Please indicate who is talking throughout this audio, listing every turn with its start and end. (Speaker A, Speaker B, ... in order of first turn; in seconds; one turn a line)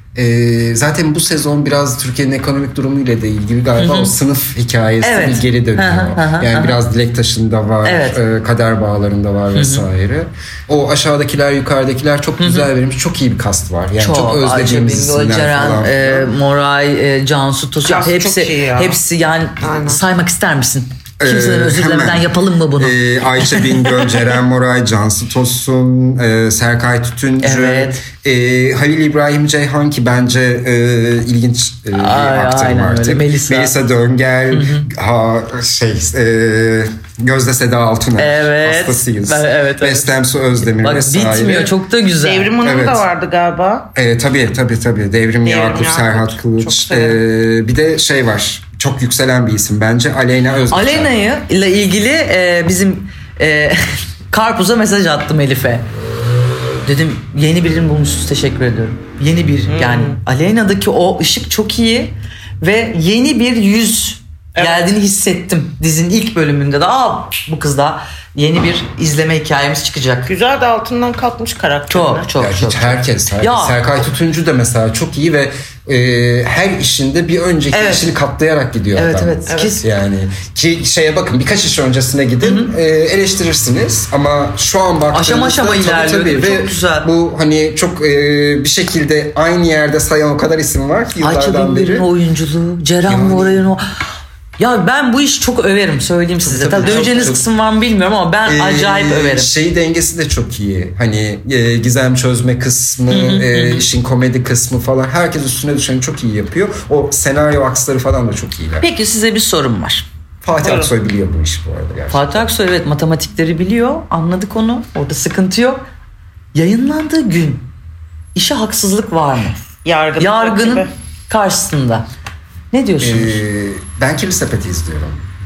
Speaker A: 0.1-16.3
Speaker B: 3.8-4.2
Speaker B: 5.0-6.8
Speaker B: 7.8-8.2
Speaker B: 9.5-9.9
Speaker B: 12.4-12.7
Speaker B: 14.0-23.9
Speaker C: 17.9-19.0
Speaker C: 19.6-20.0
Speaker A: 21.2-41.7
Speaker B: 27.4-28.0
Speaker B: 31.9-33.7
Speaker B: 34.5-34.9
Speaker B: 38.2-42.6
Speaker C: 42.2-43.9
Speaker A: 42.6-43.1
Speaker A: 44.0-51.1
Speaker C: 45.4-47.2
Speaker B: 50.7-55.9
Speaker B: 56.9-70.3
Speaker C: 59.7-60.2
Speaker C: 64.6-64.8
Speaker C: 70.3-72.3
Speaker B: 71.9-73.9
Speaker A: 72.4-92.1
Speaker B: 77.7-78.1
Speaker B: 79.0-79.8
Speaker C: 79.5-79.8
Speaker B: 82.4-82.7
Speaker B: 85.1-87.1
Speaker B: 91.2-93.8
Speaker A: 93.1-93.7
Speaker B: 94.6-99.5
Speaker A: 96.4-97.4
Speaker A: 98.5-108.9
Speaker B: 103.1-103.9
Speaker B: 108.8-110.1
Speaker A: 110.4-112.4
Speaker C: 110.6-110.9
Speaker B: 112.1-115.8
Speaker B: 116.5-117.7
Speaker B: 118.3-119.6
Speaker C: 119.8-120.9
Speaker B: 120.2-122.1
Speaker B: 122.7-123.4
Speaker A: 123.0-125.3